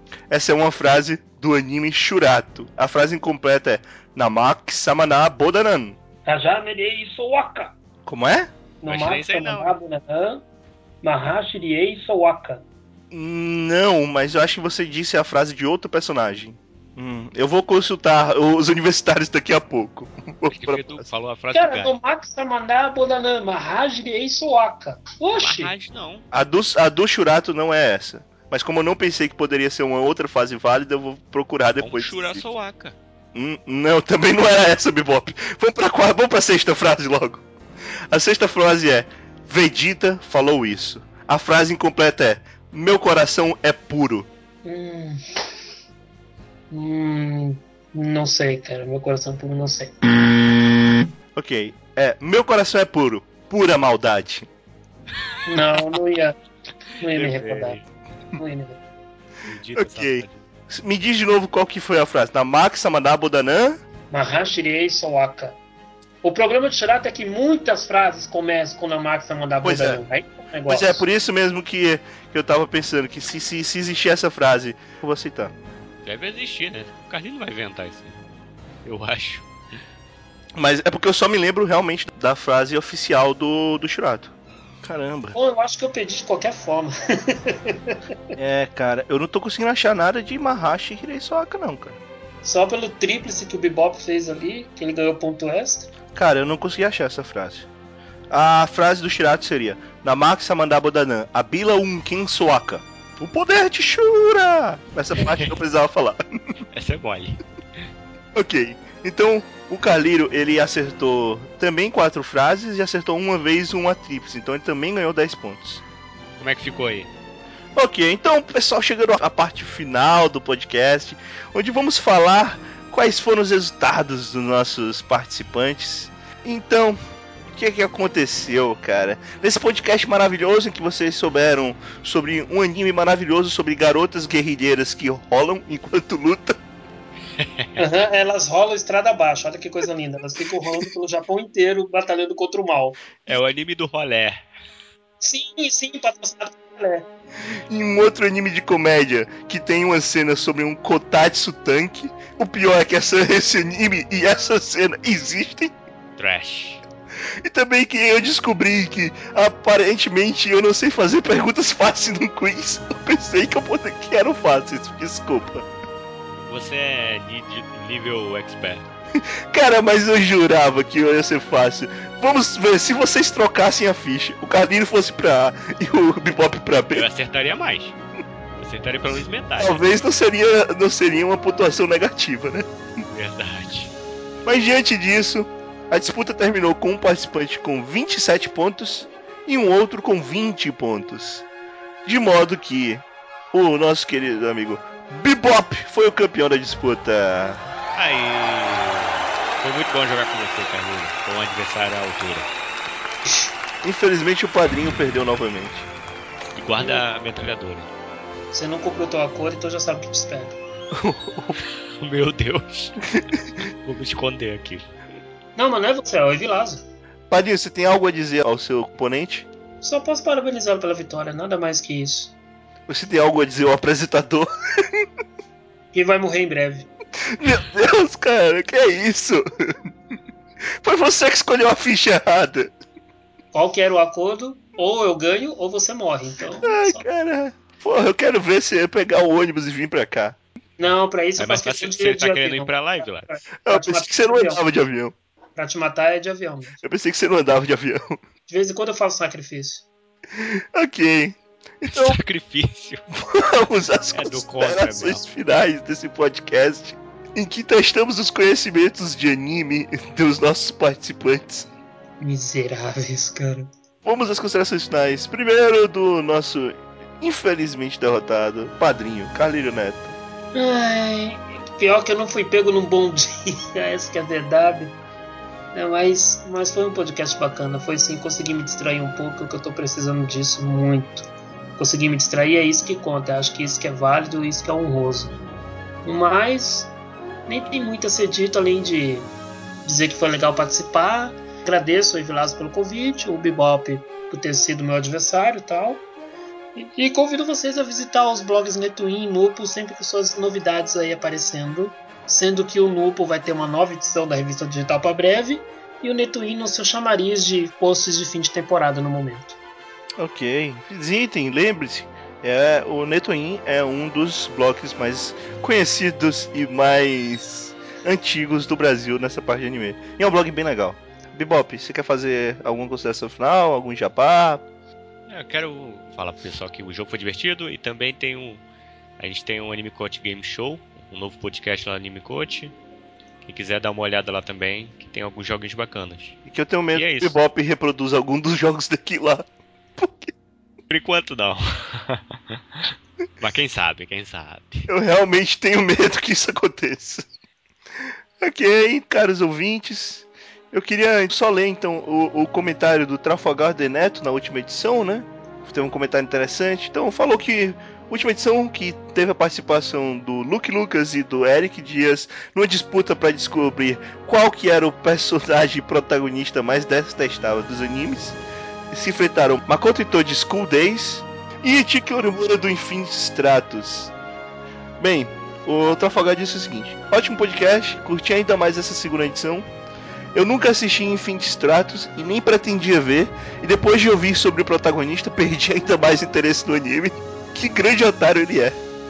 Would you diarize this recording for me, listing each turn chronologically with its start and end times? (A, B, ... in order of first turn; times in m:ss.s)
0:00.3-0:06.0 A
0:06.3-0:07.7 B
0:08.1-0:08.5 A
0:08.8-0:10.4 B
0:08.9-0:09.8 C
0:11.0-0:12.6 B
0:13.1-0:21.0 A
0:20.5-0:21.9 C
0:21.5-0:25.7 B
0:25.4-0:26.2 C
0:26.3-0:32.4 A
0:31.8-0:33.0 C
0:33.3-0:37.4 A
0:38.1-0:44.3 A
0:44.6-0:45.2 B
0:46.7-0:49.9 B
0:51.4-0:54.5 A
0:55.5-0:56.4 B
0:55.5-0:55.8 C
0:57.0-0:57.8 B
0:57.1-0:57.9 C
0:58.4-0:58.8 B
0:59.5-1:00.4 C
0:59.8-1:03.8 A
1:04.1-1:05.6 B
1:06.2-1:11.0 B
1:09.6-1:10.0 A
1:10.7-1:15.5 A
1:16.0-1:18.2 C
1:18.8-1:19.5 C
1:20.6-1:25.4 A
1:25.3-1:28.0 B
1:28.4-1:32.0 A
1:32.4-1:35.9 B
1:36.1-1:37.7 A
1:38.3-1:46.2 A
1:45.2-1:45.6 C
1:46.7-1:47.4 C
1:48.4-1:55.8 A
1:56.4-1:57.1 C
1:57.8-2:07.0 A
2:07.5-2:16.6 A
2:17.4-2:17.8 C
2:17.8-2:23.0 B
2:23.3-2:24.5 C
2:25.2-2:27.1 B
2:27.6-2:35.8 A
2:36.2-2:36.8 C
2:37.4-2:45.7 A
2:46.4-2:48.9 C
2:49.5-2:57.1 A
2:56.9-2:58.0 C
2:58.6-2:59.9 C
2:59.6-3:02.7 A
3:03.0-3:03.9 C
3:04.4-3:11.5 A
3:12.0-3:17.6 A
3:18.0-3:22.5 C
3:23.8-3:25.9 A
3:26.6-3:27.9 C
3:26.8-3:27.0 B
3:28.5-3:30.6 B
3:30.9-3:31.6 A
3:31.6-3:33.0 C
3:33.6-3:34.9 C
3:35.6-3:36.8 B
3:37.3-3:39.5 A
3:39.8-3:42.3 B
3:42.9-3:45.1 A
3:45.9-3:46.9 B
3:47.3-3:49.7 A
3:50.8-3:52.7 A
3:53.5-3:57.0 B
3:56.6-4:00.4 A
4:00.8-4:04.6 B
4:01.4-4:03.3 C
4:03.6-4:05.1 A
4:05.6-4:06.8 B
4:06.8-4:08.2 A
4:08.5-4:09.9 B
4:10.3-4:12.2 A
4:11.9-4:13.0 C
4:13.2-4:21.7 A
4:14.1-4:15.2 C
4:22.2-4:23.7 B
4:24.0-4:30.2 A
4:30.5-4:35.0 B
4:35.7-4:45.4 B
4:46.0-4:46.9 B
4:47.5-4:49.3 B
4:49.8-4:56.0 B
4:56.8-5:09.6 B
5:10.2-5:24.6 A
5:25.3-5:28.6 C
5:29.2-5:32.7 C
5:33.4-5:36.4 C
5:36.5-5:39.5 A
5:36.9-5:37.4 C
5:40.0-5:40.3 A
5:40.9-5:44.9 C
5:44.9-5:47.3 A
5:48.4-6:08.4 A
6:08.9-6:14.1 A
6:15.0-6:19.7 A
6:20.3-6:28.8 A